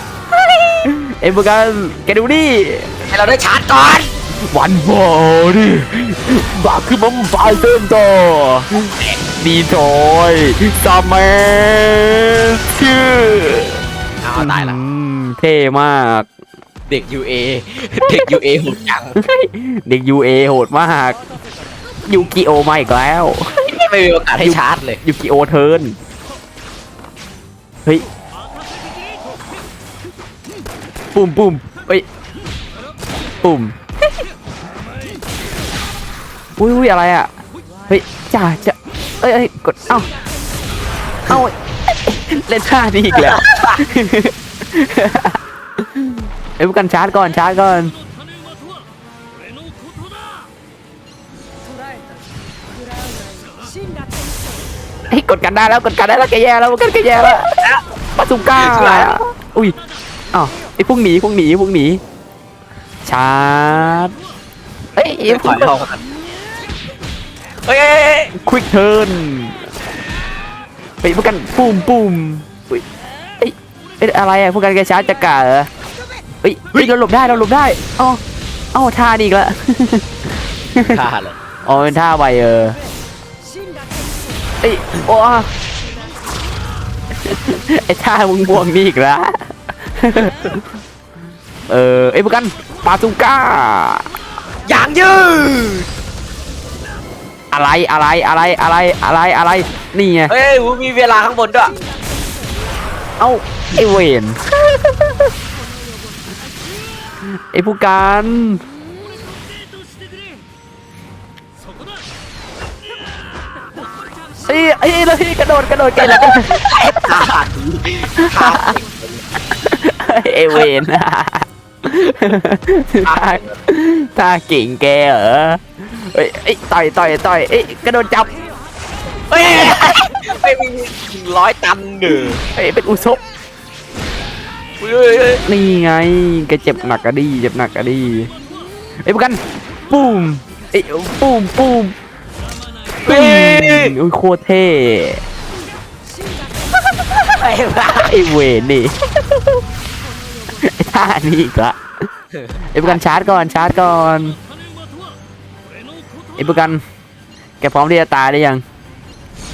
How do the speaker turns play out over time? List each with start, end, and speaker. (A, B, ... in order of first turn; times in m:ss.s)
0:00.6-0:02.9 A
0:03.1-0:04.1 B
0:04.4-0:13.8 A
0:08.8-0:09.2 B
0:14.2-0:14.8 B
0:14.4-0:16.3 A
0:16.9-0:19.2 B
0:18.1-0:18.3 A
0:19.2-0:21.2 A
0:22.1-0:23.6 A
0:23.6-0:25.0 B
0:24.4-0:26.0 A
0:31.1-0:32.0 A
0:33.4-0:33.8 A
0:36.6-0:37.3 A
0:37.9-0:40.1 A
0:41.3-0:45.4 A
0:43.2-0:43.8 B
0:46.0-0:47.9 A
0:55.1-0:57.5 A
0:58.2-0:59.8 A
0:58.6-0:59.2 B
1:00.3-1:02.0 A
1:03.0-1:04.2 A
1:05.0-1:05.7 A
1:05.3-1:06.0 B
1:07.6-1:08.3 B
1:08.4-1:09.7 A
1:11.0-1:12.8 A
1:13.4-1:15.7 A
1:16.4-1:18.2 A
1:18.7-1:20.1 A
1:20.7-1:21.0 A
1:20.8-1:21.4 B
1:21.7-1:22.8 A
1:24.6-1:25.5 A
1:27.2-1:30.6 A
1:31.7-1:34.1 A
1:34.7-1:35.9 B
1:37.5-1:40.3 A
1:40.3-1:41.8 B
1:43.2-1:45.3 A
1:47.3-1:48.6 A
1:54.4-1:56.7 A
1:56.0-1:59.2 B
1:58.2-1:58.8 A
1:59.5-2:08.4 A
2:03.0-2:03.6 B
2:09.3-2:12.4 B
2:12.4-2:13.2 A
2:14.8-2:15.4 B
2:15.4-2:18.3 A
2:19.0-2:22.0 A
2:23.1-2:23.9 B
2:23.1-2:25.2 A
2:27.2-2:28.2 B
2:27.9-2:29.6 A
2:30.6-2:31.8 A
2:32.3-2:33.0 B
2:32.8-2:34.4 A
2:36.4-2:36.8 A
2:37.6-2:38.6 A